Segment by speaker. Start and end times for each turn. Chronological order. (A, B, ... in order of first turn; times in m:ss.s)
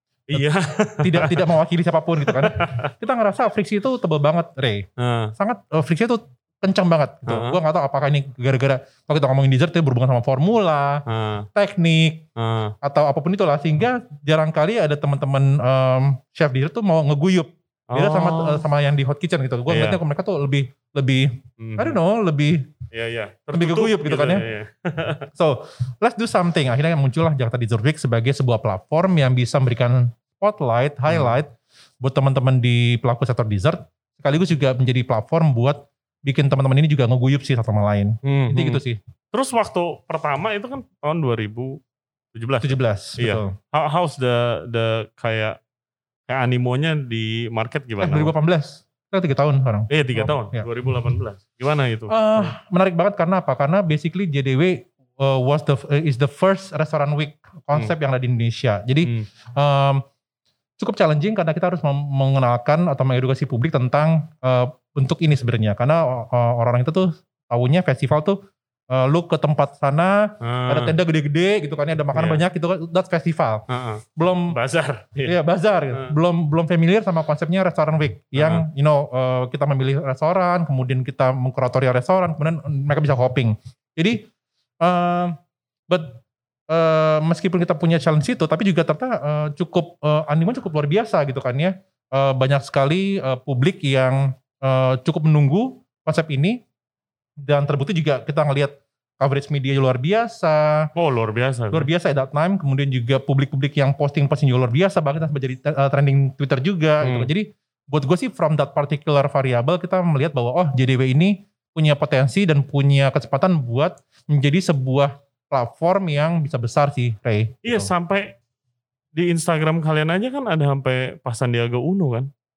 0:00.3-0:01.4 A
0:01.0-0:12.2 B
0:02.3-0:02.9 A
0:05.0-0:05.3 A
0:07.3-0:07.6 A
0:11.1-0:11.5 A
0:12.4-0:12.8 A
0:12.8-0:22.7 B
0:17.9-0:18.6 A
0:19.7-0:20.0 A
0:21.6-0:22.0 A
0:22.9-0:25.3 A
0:23.5-0:24.4 B
0:25.4-0:39.0 B
0:31.1-0:31.4 A
0:38.2-0:41.8 A
0:42.3-0:45.6 A
0:42.6-0:43.6 B
0:46.3-0:48.3 A
0:48.0-0:50.7 B
0:49.9-0:52.5 A
0:52.1-1:00.0 B
1:00.8-1:08.4 B
1:08.9-1:13.6 B
1:10.4-1:10.9 A
1:12.1-1:12.4 A
1:13.7-1:15.4 A
1:14.2-1:14.6 B
1:15.2-1:24.2 B
1:18.4-1:18.7 A
1:24.8-1:25.4 B
1:25.9-1:36.6 B
1:37.4-1:40.9 B
1:41.0-1:41.9 A
1:41.7-1:57.9 B
1:47.0-1:47.3 A
1:57.6-1:58.4 A
1:59.2-2:02.3 A